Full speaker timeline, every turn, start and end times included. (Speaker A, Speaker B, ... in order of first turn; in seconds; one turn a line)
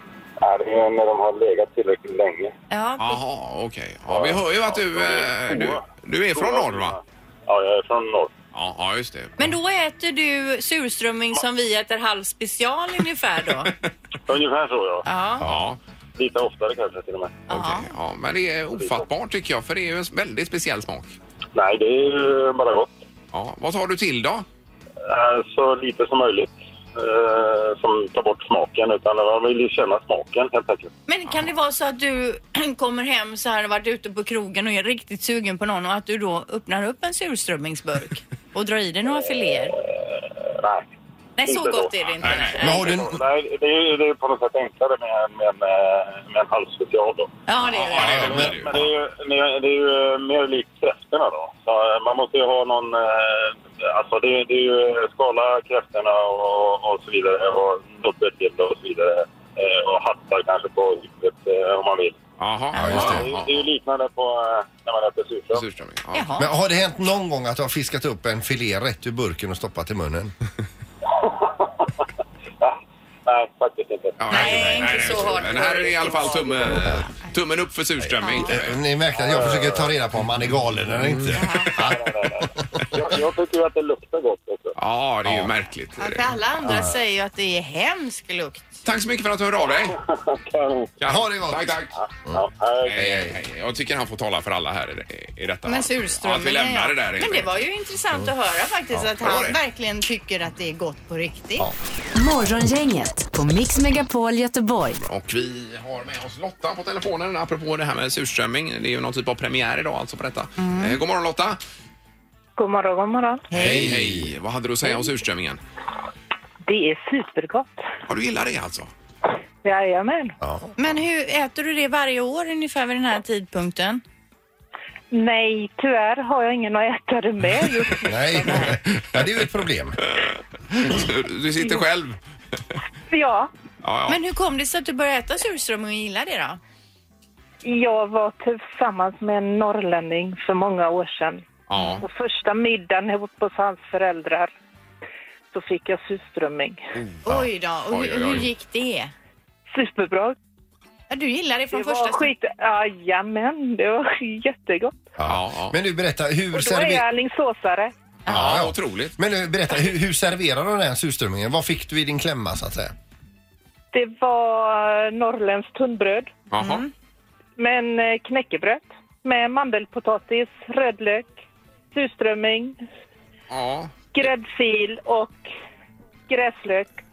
Speaker A: 0.4-2.5
Speaker B: 2.7-3.2
Speaker C: 3.0-7.0
Speaker A: 4.1-8.3
Speaker C: 8.5-9.5
Speaker B: 9.4-13.7
Speaker A: 14.3-15.1
Speaker B: 15.1-15.5
Speaker C: 15.4-15.8
Speaker A: 16.2-17.4
Speaker B: 17.5-17.9
Speaker C: 17.5-21.1
Speaker A: 18.8-19.0
Speaker A: 21.5-23.0
Speaker C: 23.3-24.4
Speaker A: 25.1-30.9
Speaker B: 31.1-39.7
Speaker A: 39.9-40.9
Speaker B: 41.4-42.8
Speaker A: 41.4-41.9
Speaker C: 42.2-42.8
Speaker A: 42.6-47.3
Speaker D: 42.7-43.2
Speaker B: 47.5-48.3
Speaker C: 47.6-48.9
Speaker A: 48.0-62.2
Speaker C: 62.4-63.6
Speaker B: 62.7-63.2
Speaker D: 62.8-63.2
Speaker A: 62.8-65.7
Speaker C: 65.5-66.4
Speaker B: 66.1-66.5
Speaker D: 66.4-70.3
Speaker A: 71.2-71.7
Speaker A: 73.2-74.2
Speaker C: 74.2-78.8
Speaker B: 74.3-77.1
Speaker D: 78.0-82.6
Speaker B: 78.2-78.5
Speaker A: 79.2-79.9
Speaker B: 81.3-81.8
Speaker A: 81.6-84.8
Speaker C: 84.8-86.3
Speaker D: 85.2-85.5
Speaker B: 86.0-88.8
Speaker C: 88.8-90.0
Speaker A: 90.0-91.0
Speaker C: 91.0-91.9
Speaker D: 91.1-92.4
Speaker A: 91.9-93.0
Speaker C: 92.8-97.5
Speaker D: 92.9-93.4
Speaker B: 95.6-101.7
Speaker C: 99.2-99.6
Speaker E: 102.2-105.0
Speaker C: 105.0-111.6
Speaker B: 110.6-111.0
Speaker F: 112.6-113.5
Speaker D: 113.5-114.3
Speaker C: 113.5-115.6
Speaker F: 116.7-117.7
Speaker C: 118.1-118.9
Speaker F: 119.6-120.3
Speaker D: 120.4-120.7
Speaker B: 120.8-124.0
Speaker F: 125.1-128.6
Speaker D: 128.0-130.0
Speaker C: 130.0-132.2
Speaker F: 133.1-133.5
Speaker C: 133.8-134.2
Speaker B: 134.1-136.6
Speaker F: 137.6-141.4
Speaker C: 141.7-142.1
Speaker B: 141.8-142.0
Speaker F: 142.0-144.5
Speaker F: 145.5-146.8
Speaker C: 146.9-148.5
Speaker B: 147.2-149.1
Speaker F: 149.7-150.3
Speaker B: 151.1-152.3
Speaker F: 151.7-155.0
Speaker D: 155.2-157.1
Speaker C: 155.2-155.8
Speaker F: 156.5-157.9
Speaker B: 158.2-158.5
Speaker C: 158.3-159.2
Speaker D: 158.3-162.9
Speaker F: 163.9-166.3
Speaker C: 166.5-166.8
Speaker B: 166.6-166.9
Speaker F: 167.6-171.3
Speaker F: 171.9-172.8
Speaker C: 173.5-174.1
Speaker F: 174.1-175.4
Speaker F: 176.3-176.9